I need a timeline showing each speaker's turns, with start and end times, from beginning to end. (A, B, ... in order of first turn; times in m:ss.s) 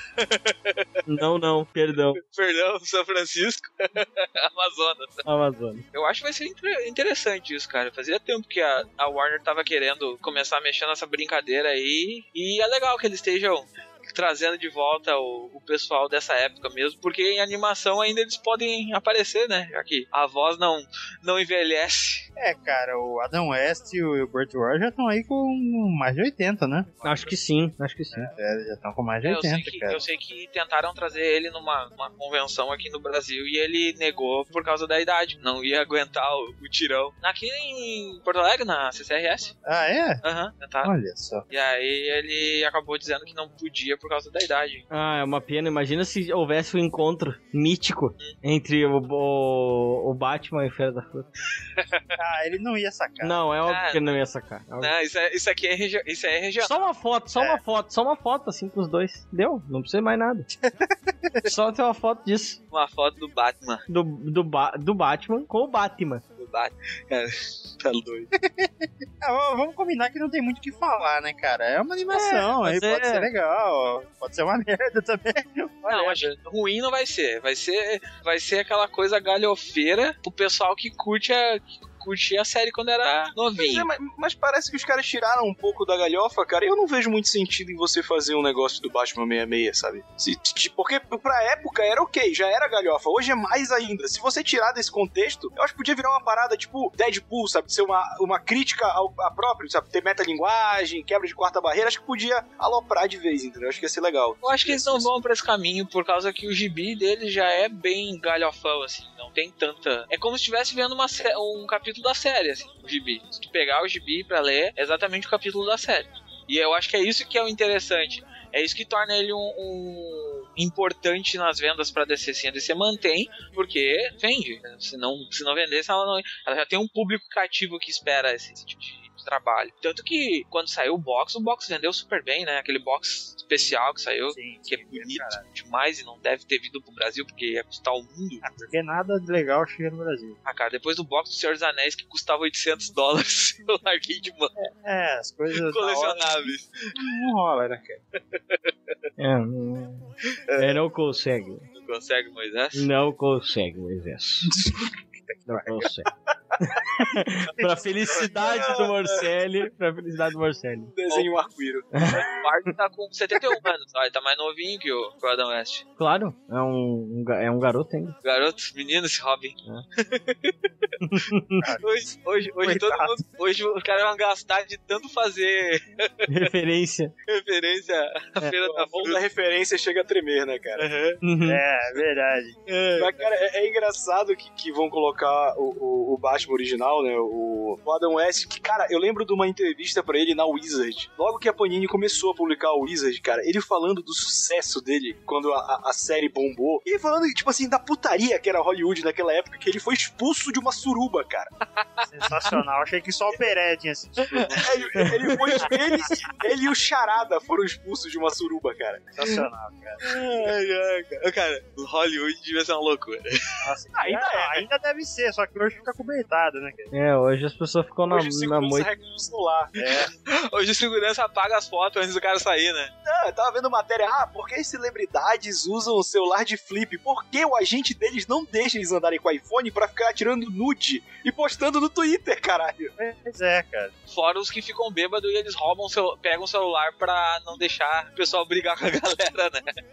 0:00.2-0:01.0 A
0:01.1-0:02.2 B
0:02.2-0:05.2 A
0:05.2-0:05.8 B
0:05.9-0:22.3 A
0:22.4-0:27.0 C
0:27.0-0:28.3 B
0:28.1-0:30.0 C
0:29.2-0:39.6 A
0:39.7-0:40.2 C
0:40.2-0:40.9 A
0:40.8-0:41.4 C
0:41.5-0:44.8 A
0:44.9-0:51.3 B
0:52.2-0:53.4 C
0:53.2-0:54.9 B
0:53.7-0:54.0 A
0:54.8-0:56.8 A
0:56.6-1:00.5 B
1:00.6-1:01.5 C
1:01.4-1:02.6 B
1:02.7-1:03.8 A
1:03.9-1:06.2 B
1:06.4-1:08.3 A
1:08.4-1:16.3 C
1:12.1-1:13.3 B
1:15.9-1:23.9 A
1:23.6-1:45.1 D
1:44.4-2:18.4 A
2:14.3-2:15.4 C
2:18.4-2:20.4 C
2:20.4-2:24.5 A
2:24.6-2:28.0 C
2:25.6-2:26.9 A
2:28.3-2:28.7 A
2:29.2-2:31.7 B
2:31.8-2:32.9 A
2:32.8-2:34.5 B
2:35.3-2:35.9 C
2:35.5-2:36.1 B
2:36.6-2:40.9 B
2:38.4-2:39.0 D
2:40.9-2:41.9 D
2:41.9-2:42.7 B
2:42.2-2:45.8 A
2:46.0-2:48.2 B
2:48.2-2:50.9 A
2:51.0-2:51.6 B
2:51.6-2:51.9 C
2:51.8-2:56.3 A
2:52.6-2:53.2 C
2:56.3-2:57.1 B
2:57.3-2:59.2 A
2:58.6-3:00.9 D
3:00.8-3:01.2 A
3:01.2-3:01.6 B
3:01.4-3:02.6 C
3:02.7-3:03.3 A
3:03.0-3:21.5 D
3:22.0-3:24.7 C
3:24.4-3:24.8 A
3:24.6-3:29.1 D
3:25.0-3:25.7 B
3:29.2-3:30.0 C
3:30.0-3:33.6 A
3:33.6-3:36.9 C
3:34.0-3:34.6 D
3:36.9-3:38.9 B
3:38.1-3:39.7 D
3:39.8-3:40.1 C
3:39.8-3:42.9 A
3:43.0-3:52.9 D
3:53.0-3:53.9 C
3:54.1-3:59.8 A